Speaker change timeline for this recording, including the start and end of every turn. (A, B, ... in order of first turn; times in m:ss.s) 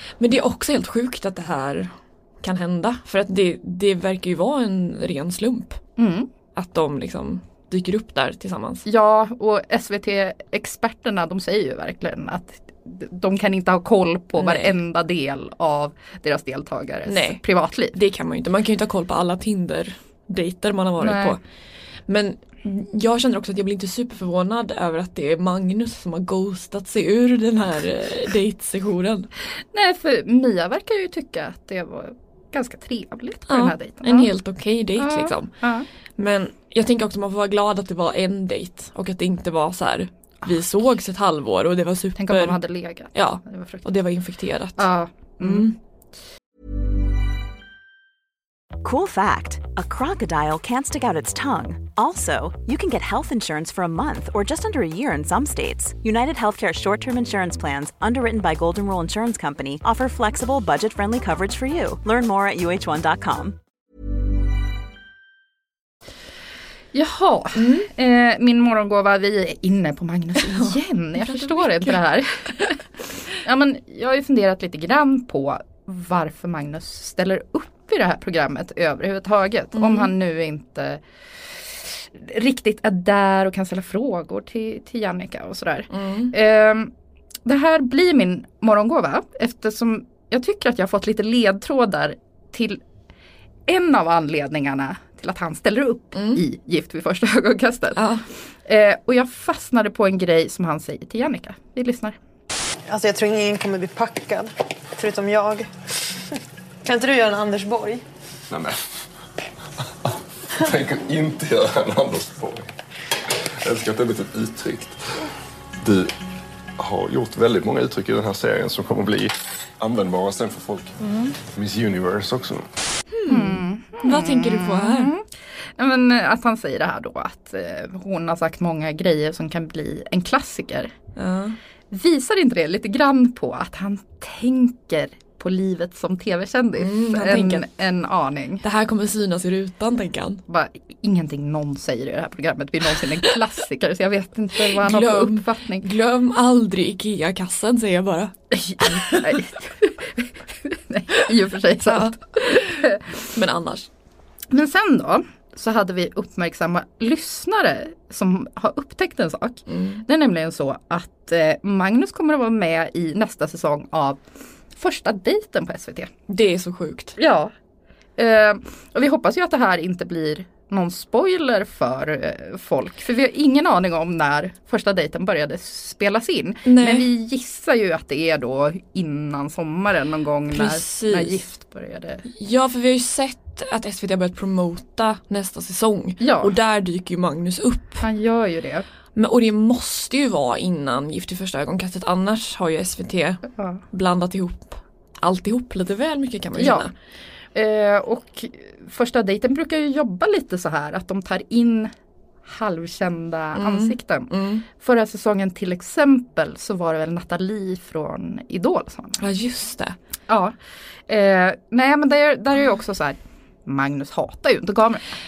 0:00.2-0:05.8 A
0:06.0-0:06.3 B
0:06.5-0:08.8 A
0:08.8-0:18.0 B
0:14.4-0:14.7 A
0:17.1-0:17.4 A
0:17.9-0:21.4 A
0:21.0-0:21.4 B
0:22.1-0:29.3 A
0:29.7-0:34.3 B
0:33.5-0:35.5 A
0:35.0-0:35.8 B
0:36.2-0:42.6 A
0:42.2-0:43.8 B
0:43.1-0:44.9 A
0:44.8-0:45.7 B
0:45.4-0:45.7 A
0:48.8-1:03.6 C
1:06.9-1:12.8 B
1:07.6-1:07.9 A
1:10.5-1:12.0 A
1:13.4-1:26.9 B
1:19.7-1:20.1 A
1:25.9-1:26.3 A
1:27.4-1:32.8 B
1:33.7-1:38.0 B
1:36.1-1:36.4 A
1:38.0-1:38.2 A
1:38.6-1:42.2 B
1:42.9-1:45.7 D
1:46.8-1:48.0 D
1:48.5-1:48.8 E
1:50.0-1:52.7 E
1:53.4-1:55.2 E
1:55.8-1:56.1 E
1:56.8-2:02.7 E
2:03.1-2:05.1 A
2:03.3-2:10.9 B
2:11.2-2:11.6 A
2:11.9-2:18.6 B
2:16.8-2:17.6 A
2:18.6-2:20.4 A
2:20.5-2:25.8 B
2:24.7-2:29.3 A
2:28.5-2:33.1 B
2:31.9-2:33.9 A
2:34.5-2:44.2 B
2:39.7-2:40.0 A
2:44.7-2:46.1 B
2:46.3-2:47.1 A
2:47.2-2:47.5 B
2:48.2-3:02.2 B
2:56.6-2:57.1 A
3:00.5-3:01.4 A
3:02.2-3:08.0 A
3:06.2-3:06.5 B
3:08.0-3:08.8 B
3:09.1-3:16.9 A
3:16.6-3:16.9 B
3:17.5-3:21.9 B
3:22.4-3:29.2 B
3:23.5-3:24.6 A
3:29.2-3:30.0 A
3:30.3-3:30.6 B
3:31.1-3:35.1 B